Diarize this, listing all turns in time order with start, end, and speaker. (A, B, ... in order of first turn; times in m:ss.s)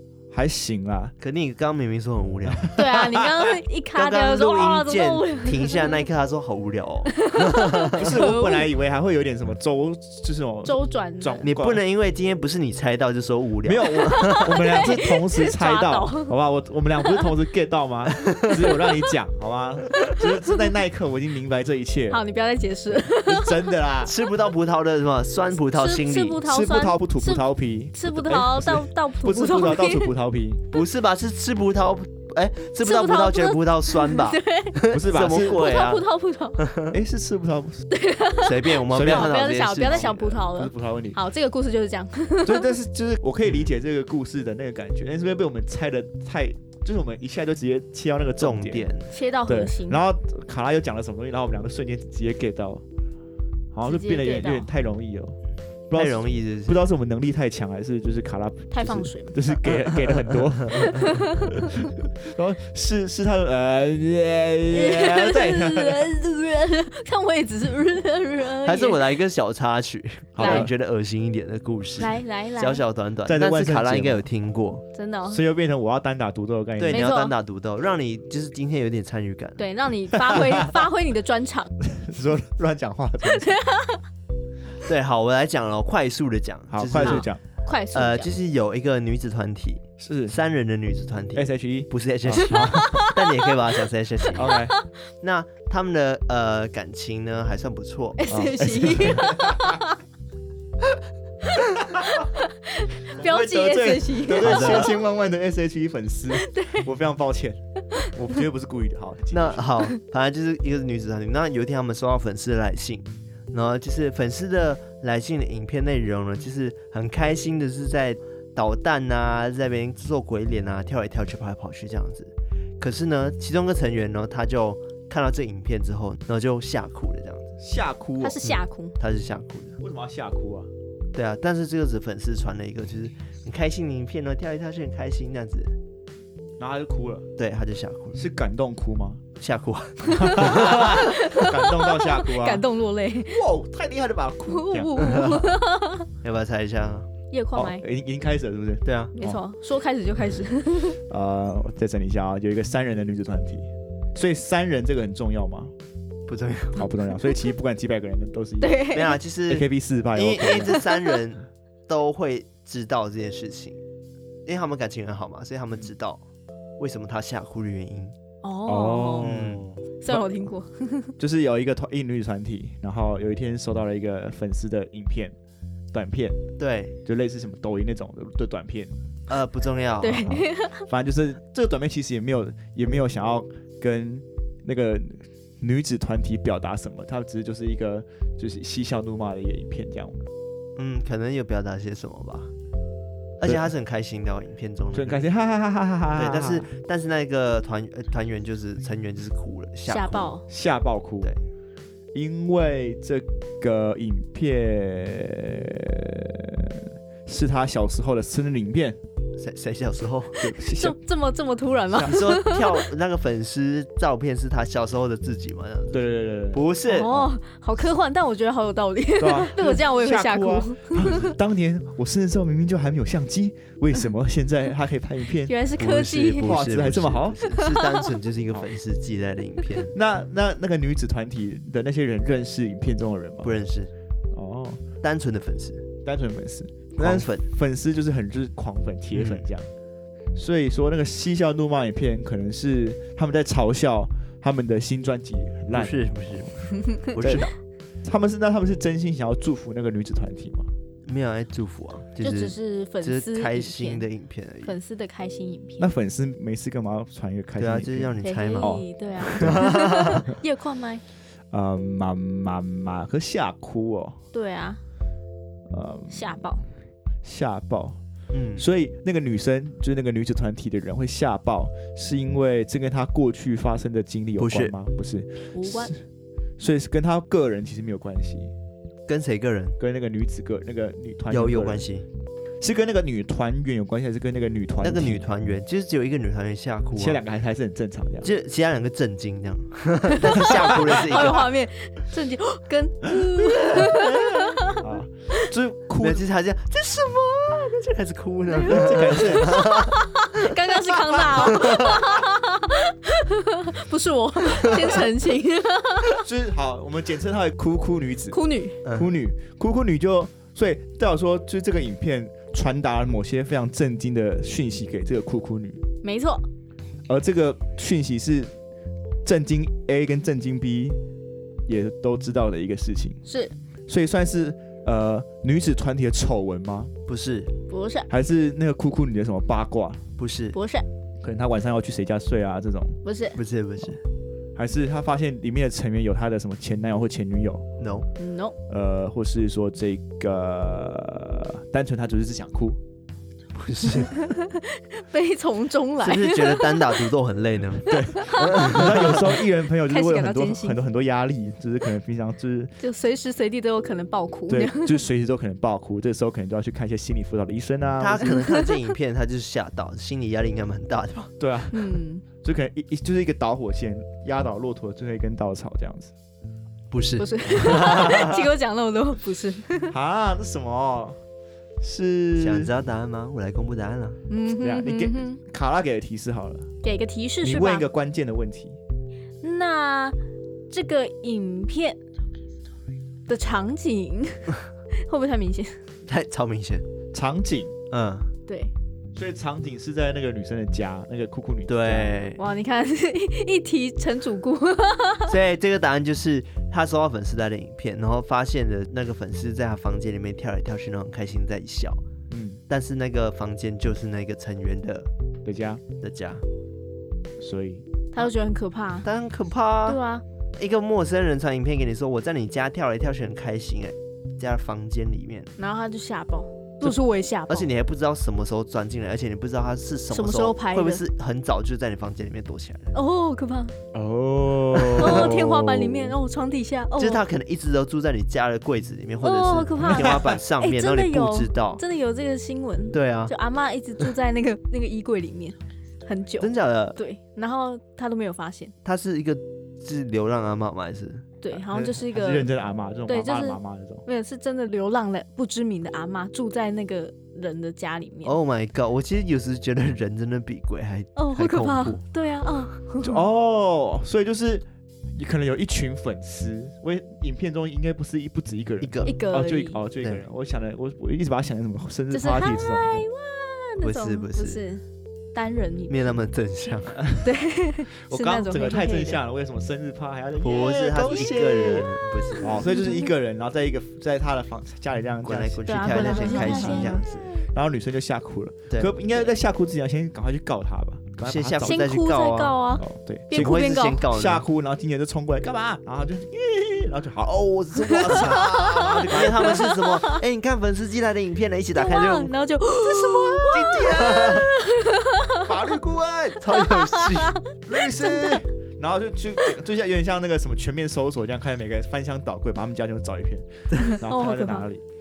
0:00.3-0:01.1 A
0:01.2-0:02.7 B
0:02.6-0:03.3 A
0:02.7-0:06.0 C
0:03.9-0:08.1 B
0:07.1-0:08.7 C
0:07.9-0:11.8 A
0:10.6-0:11.5 C
0:11.4-0:14.7 B
0:13.6-0:22.2 A
0:13.9-0:16.3 C
0:18.2-0:18.5 B
0:22.1-0:23.7 C
0:23.1-0:24.1 A
0:24.0-0:26.4 B
0:25.7-0:30.1 C
0:26.4-0:30.7 A
0:30.7-0:36.0 B
0:32.8-0:36.6 C
0:34.9-0:35.7 A
0:36.6-0:37.0 B
0:36.9-0:37.9 A
0:37.9-0:42.7 C
0:38.4-0:40.1 B
0:38.9-0:41.2 A
0:42.4-0:48.9 A
0:48.4-0:49.1 B
0:49.1-0:50.0 C
0:49.5-0:52.8 A
0:53.7-0:55.4 A
0:53.8-0:54.7 C
0:55.9-1:06.1 A
0:55.9-0:56.8 B
0:58.7-0:59.6 C
1:00.7-1:01.7 C
1:04.7-1:09.0 C
1:08.6-1:14.8 B
1:10.3-1:10.7 A
1:10.4-1:10.7 C
1:12.0-1:12.8 C
1:13.2-1:14.2 A
1:14.9-1:15.4 C
1:15.3-1:17.1 A
1:16.8-1:19.6 B
1:16.9-1:17.3 C
1:19.6-1:21.7 C
1:20.2-1:20.7 A
1:21.8-1:23.6 A
1:23.2-1:24.0 C
1:24.8-1:27.3 B
1:26.7-1:27.4 A
1:27.0-1:28.3 C
1:27.9-1:34.5 B
1:30.0-1:30.3 A
1:31.3-1:33.1 A
1:32.5-1:33.3 C
1:34.3-1:34.7 A
1:34.4-1:34.9 C
1:35.2-1:38.2 B
1:38.2-1:40.0 C
1:38.3-1:39.8 A
1:41.5-1:44.9 C
1:43.2-1:49.7 A
1:44.4-1:45.0 B
1:46.3-1:46.9 C
1:49.3-2:07.6 B
2:07.6-2:08.4 A
2:08.2-2:09.0 C
2:08.4-2:09.8 B
2:09.8-2:10.7 A
2:11.1-2:15.8 B
2:16.6-2:17.3 A
2:17.4-2:18.2 B
2:18.1-2:19.2 A
2:19.4-2:21.0 B
2:20.1-2:22.7 A
2:20.7-2:23.4 C
2:23.2-2:25.4 A
2:24.5-2:26.1 C
2:25.0-2:25.5 B
2:26.2-2:27.1 B
2:27.3-2:27.8 C
2:27.5-2:29.4 A
2:28.8-2:29.1 B
2:29.1-2:31.0 C
2:31.1-2:35.7 A
2:36.3-2:36.8 B
2:36.8-2:38.8 A
2:38.6-2:39.2 C
2:38.9-2:43.8 B
2:39.5-2:40.8 A
2:40.7-2:41.2 C
2:44.4-2:46.2 B
2:46.8-2:48.2 B
2:48.4-2:49.3 C
2:48.7-2:50.4 A
2:49.2-2:49.7 B
2:50.0-2:51.1 C
2:51.2-2:55.3 A
2:55.9-2:56.4 A
2:56.6-2:57.0 B
2:57.0-2:58.9 A
2:59.3-3:00.3 B
3:00.0-3:00.9 C
3:00.2-3:10.3 A
3:10.8-3:12.5 B
3:13.4-3:15.2 B
3:14.9-3:16.7 A
3:16.1-3:20.3 B
3:19.9-3:20.4 C
3:20.5-3:21.3 A
3:22.1-3:29.0 A
3:29.4-3:30.4 B
3:30.4-3:31.0 A
3:30.6-3:32.9 C
3:32.0-3:37.1 B
3:35.9-3:37.3 A
3:36.8-3:41.2 C
3:39.2-3:45.5 A
3:45.4-3:46.6 C
3:45.8-3:49.9 B
3:46.4-3:47.4 A
3:47.5-3:48.1 C
3:49.9-3:53.6 A
3:53.4-3:53.9 B
3:54.3-3:54.9 A
3:55.0-3:55.9 B
3:56.0-3:59.7 A
3:57.0-3:57.5 B
3:59.1-3:59.4 B
4:00.3-4:06.5 A
4:05.7-4:07.5 B
4:07.2-4:07.5 A
4:08.0-4:10.7 A
4:11.1-4:14.8 B
4:12.2-4:14.1 C
4:14.6-4:15.9 C
4:15.8-4:19.7 A
4:17.6-4:20.2 B
4:18.2-4:21.0 C
4:21.5-4:24.2 A
4:24.3-4:24.8 C
4:25.7-4:26.5 A
4:26.1-4:26.6 C
4:27.2-4:28.0 A
4:28.3-4:28.7 B
4:28.6-4:36.0 A
4:34.4-4:34.7 B
4:35.5-4:35.9 C
4:36.6-4:38.5 A
4:39.1-4:39.8 B
4:39.8-4:41.8 A
4:41.3-4:42.0 B
4:42.6-4:45.3 A
4:44.8-4:47.2 B
4:47.0-4:48.3 A
4:48.2-4:51.5 B
4:50.3-4:55.5 C
4:53.8-4:56.2 A
4:56.0-5:02.0 B
4:58.6-5:06.2 C
4:58.6-4:59.7 A
5:04.6-5:04.9 B
5:06.2-5:15.8 A
5:08.3-5:08.8 C
5:08.8-5:09.1 B
5:16.0-5:16.4 C
5:17.1-5:18.5 A
5:19.2-5:21.0 A
5:21.7-5:23.2 A
5:23.2-5:23.5 C
5:23.9-5:26.9 A
5:27.1-5:27.5 B
5:27.7-5:28.1 C
5:28.1-5:30.0 A
5:30.2-5:30.6 B
5:30.5-5:30.8 C
5:31.2-5:33.0 A
5:33.0-5:33.4 C
5:33.3-5:34.0 B
5:34.5-5:37.6 A
5:37.8-5:38.1 B
5:38.2-5:38.5 C
5:38.7-5:42.8 A
5:43.5-5:44.2 B
5:44.1-5:47.1 C
5:46.0-5:49.3 B
5:47.8-5:52.7 A
5:47.9-5:49.2 C
5:49.9-5:50.8 C
5:52.8-5:55.0 C
5:54.5-5:58.4 A
5:58.0-6:01.3 B
5:58.2-5:58.8 C
6:01.4-6:06.1 A
6:01.7-6:02.2 C
6:06.9-6:08.4 B
6:07.2-6:09.9 C
6:09.9-6:11.2 A
6:11.8-6:12.7 A
6:12.4-6:14.2 B
6:14.3-6:15.4 C
6:14.6-6:16.7 A
6:16.8-6:17.8 C
6:17.4-6:18.8 A
6:19.4-6:20.2 C
6:20.7-6:22.0 C
6:23.3-6:25.8 C
6:26.1-6:26.8 B
6:27.1-6:27.7 A
6:27.9-6:28.3 B
6:28.5-6:28.7 C
6:29.1-6:32.2 A
6:31.7-6:32.4 B
6:32.4-6:35.3 C
6:35.3-6:42.0 B
6:42.3-6:42.6 A
6:42.7-6:45.1 B
6:45.4-6:45.8 A
6:46.0-6:46.4 B
6:47.4-6:47.9 A
6:48.1-6:49.1 C
6:49.0-6:50.0 B
6:49.8-6:50.2 C
6:50.6-6:55.5 B
6:55.6-6:57.7 C
6:57.5-7:02.9 B
7:00.1-7:01.0 C
7:02.9-7:03.7 C
7:03.9-7:06.2 A
7:04.8-7:05.4 B
7:04.9-7:07.2 C
7:07.0-7:11.8 B
7:09.2-7:18.7 C
7:12.9-7:13.3 B
7:16.4-7:17.0 B
7:18.8-7:21.8 B
7:21.4-7:22.5 C
7:21.8-7:24.0 A
7:23.1-7:28.4 C
7:28.2-7:32.0 B
7:31.2-7:33.2 C
7:33.0-7:34.6 A
7:35.2-7:43.0 A
7:38.8-7:39.2 B
7:39.0-7:39.8 C
7:42.1-7:46.2 C
7:43.8-7:44.6 B
7:45.9-7:47.0 B
7:47.0-7:47.3 A
7:47.2-7:49.2 C
7:48.0-8:01.9 A
7:50.4-7:52.7 B
7:52.3-7:53.1 C
7:55.2-7:57.3 B
7:55.6-7:57.2 C
7:58.7-7:59.3 B
8:01.2-8:02.6 B
8:01.6-8:04.0 C
8:02.8-8:09.7 A
8:03.3-8:04.4 B
8:07.8-8:10.2 C
8:08.0-8:08.5 B
8:09.1-8:12.3 B
8:11.7-8:15.5 C
8:12.8-8:14.5 B
8:13.5-8:14.5 A
8:15.4-8:16.4 A
8:16.4-8:17.4 B
8:16.5-8:18.4 C
8:17.6-8:24.8 A
8:23.8-8:24.6 C